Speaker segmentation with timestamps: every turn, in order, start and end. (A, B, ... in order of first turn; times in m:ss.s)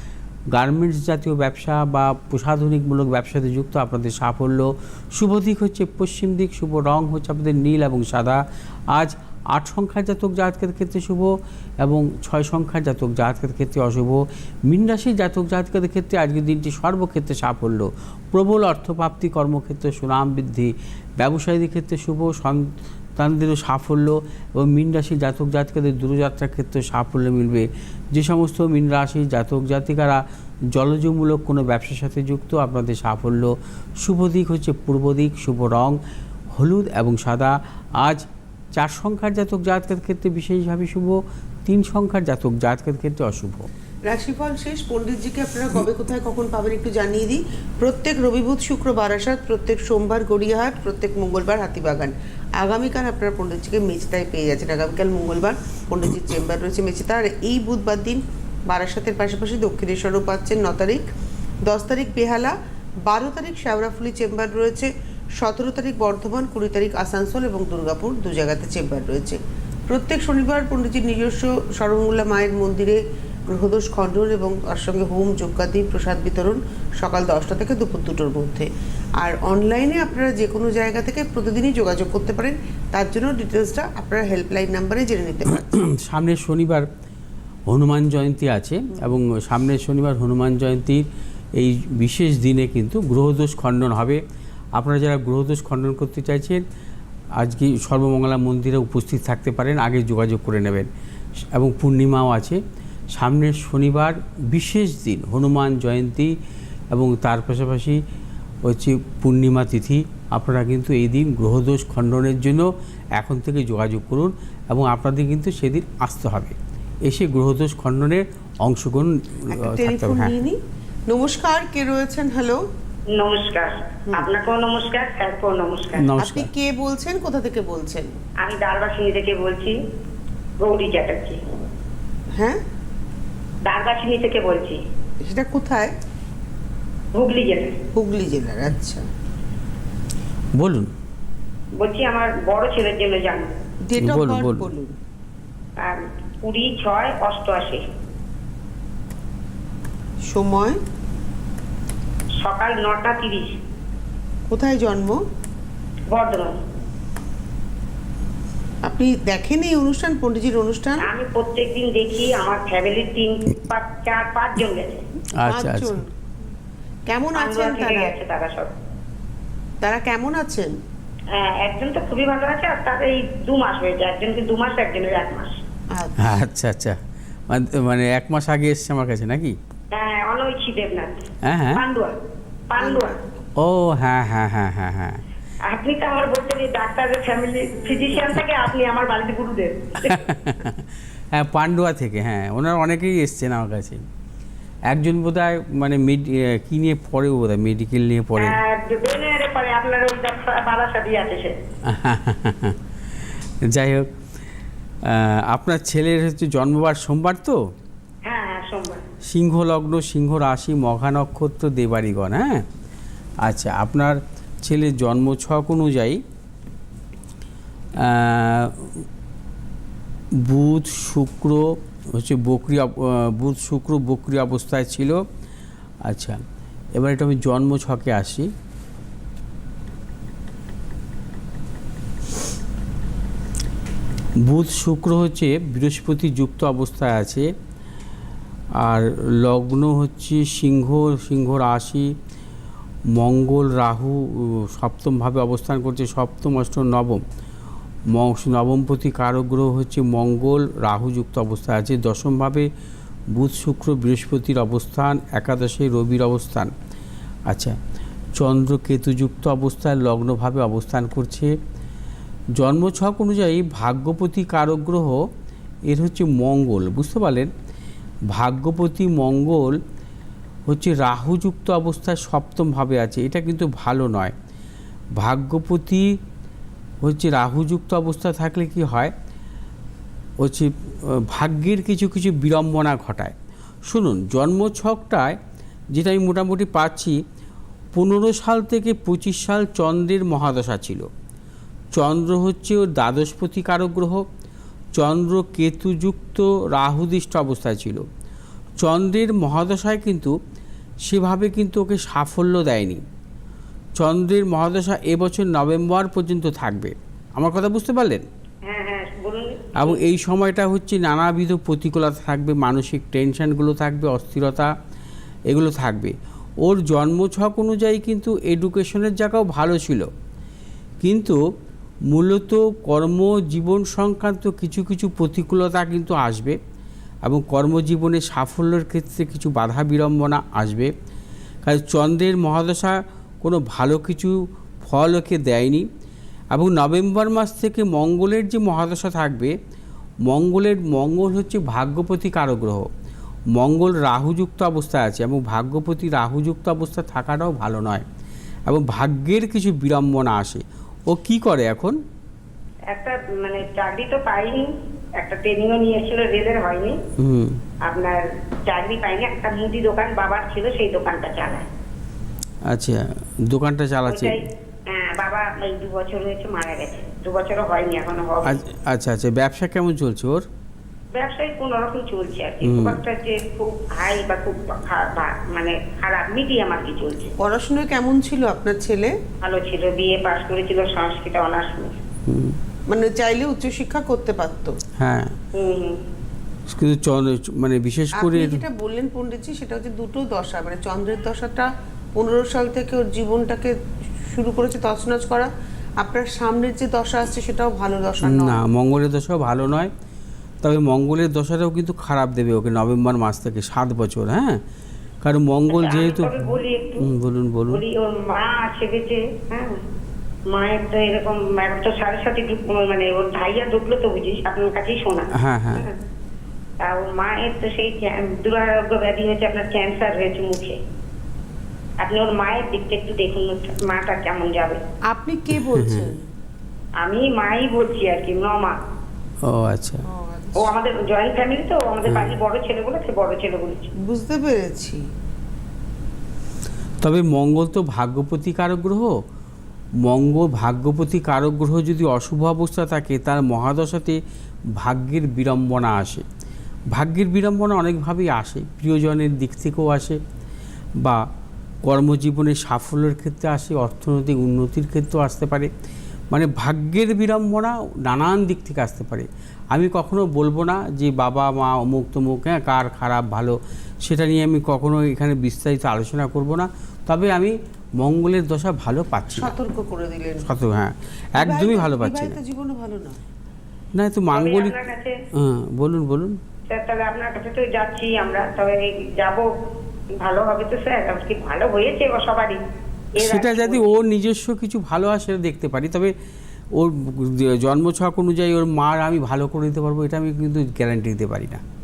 0:00.5-0:30.2 A
0:30.7-0:36.0 A
0:36.6-0:43.7 A
0:44.1-1:01.1 B
1:01.6-1:25.6 B
1:25.5-1:26.9 A
1:27.7-1:31.0 A
1:31.6-1:34.2 A
1:34.8-1:36.6 A
1:37.4-1:40.9 A
1:41.5-1:42.6 A
1:43.2-1:46.4 A
1:46.9-1:48.0 A
1:48.6-2:00.3 A
1:59.5-2:02.6 B
2:03.1-2:06.1 C
2:06.0-2:06.5 A
2:06.1-2:08.2 B
2:08.4-2:09.8 C
2:10.6-2:11.4 C
2:13.7-2:14.8 C
2:15.2-2:15.9 B
2:17.2-2:17.8 C
2:17.9-2:19.0 B
2:20.6-2:20.9 A
2:21.8-2:23.5 C
2:23.9-2:24.9 B
2:24.0-2:24.7 A
2:25.8-2:27.8 C
2:30.3-2:30.8 B
2:32.4-2:33.6 C
2:34.5-2:35.2 B
2:36.1-2:36.6 C
2:38.8-2:41.1 B
2:41.0-2:45.0 C
2:45.4-2:46.0 A
2:45.5-2:46.1 B
2:47.1-2:48.1 B
2:47.4-2:48.7 C
2:49.8-2:50.7 B
2:51.3-2:55.6 C
2:55.9-2:56.4 B
2:56.2-2:59.6 A
2:59.9-3:02.2 C
3:01.4-3:01.8 A
3:02.7-3:03.2 C
3:02.8-3:03.2 B
3:03.6-3:05.2 A
3:05.7-3:10.2 C
3:10.0-3:14.0 A
3:14.9-3:18.6 A
3:18.4-3:21.5 C
3:21.8-3:22.8 A
3:23.7-3:24.1 A
3:25.0-3:27.6 A
3:28.3-3:29.0 C
3:29.2-3:32.7 A
3:33.4-3:36.2 A
3:38.0-3:39.1 A
3:40.4-3:45.2 A
3:46.0-3:46.4 A
3:47.0-3:48.5 A
3:54.4-3:57.5 A
3:58.8-4:02.2 A
4:03.1-4:07.2 A
4:08.1-4:12.7 A
4:13.3-4:16.7 A
4:17.5-4:17.8 A
4:18.4-4:21.6 A
4:22.6-4:25.2 A
4:25.9-4:27.5 A
4:28.3-4:29.8 A
4:30.7-4:34.3 A
4:35.2-4:36.1 A
4:37.0-4:39.1 A
4:40.4-4:43.4 A
4:43.9-4:45.4 A
4:45.9-4:47.2 A
4:47.9-4:51.1 A
4:52.0-4:54.3 A
4:55.0-4:58.0 A
4:58.8-5:00.4 A
5:01.0-5:03.0 A
5:04.0-5:08.2 A
5:08.6-5:10.0 C
5:09.8-5:14.7 A
5:15.5-5:20.1 A
5:21.0-5:21.4 A
5:22.1-5:26.6 A
5:27.2-5:30.9 A
5:31.6-5:35.9 A
5:36.5-5:39.6 A
5:40.2-5:42.9 A
5:43.5-5:48.0 A
5:48.7-5:52.0 A
5:52.9-5:57.0 C
5:57.2-5:57.6 A
5:57.8-6:01.7 C
6:02.7-6:04.4 A
6:04.1-6:08.6 C
6:08.4-6:10.5 A
6:11.2-6:17.3 C
6:12.6-6:13.0 A
6:17.4-6:19.2 B
6:19.4-6:22.0 C
6:22.3-6:22.6 A
6:22.9-6:24.8 B
6:25.0-6:25.4 A
6:25.5-6:26.0 C
6:26.7-6:28.6 A
6:28.2-6:33.7 B
6:34.3-6:38.6 B
6:38.2-6:39.9 A
6:40.6-6:44.6 A
6:45.2-6:47.8 A
6:45.7-6:47.1 C
6:47.7-6:49.8 C
6:50.5-6:56.0 C
6:55.4-6:55.9 A
6:56.8-7:00.8 C
7:02.0-7:04.8 C
7:05.1-7:06.2 B
7:05.5-7:06.1 A
7:07.0-7:08.8 C
7:09.4-7:10.0 A
7:10.1-7:10.7 B
7:10.6-7:13.9 C
7:12.1-7:12.3 A
7:14.0-7:15.0 B
7:17.0-7:19.1 A
7:20.0-7:24.2 A
7:24.8-7:26.2 A
7:26.9-7:30.2 A
7:31.8-7:35.7 A
7:36.3-7:49.5 A
7:49.4-7:50.5 B
7:50.4-7:52.4 A
7:51.4-7:53.2 B
7:54.0-7:56.4 A
7:54.3-7:55.2 C
7:56.7-7:59.5 C
8:00.2-8:02.6 C
8:03.2-8:03.9 C
8:03.2-8:06.1 A
8:06.7-8:11.6 A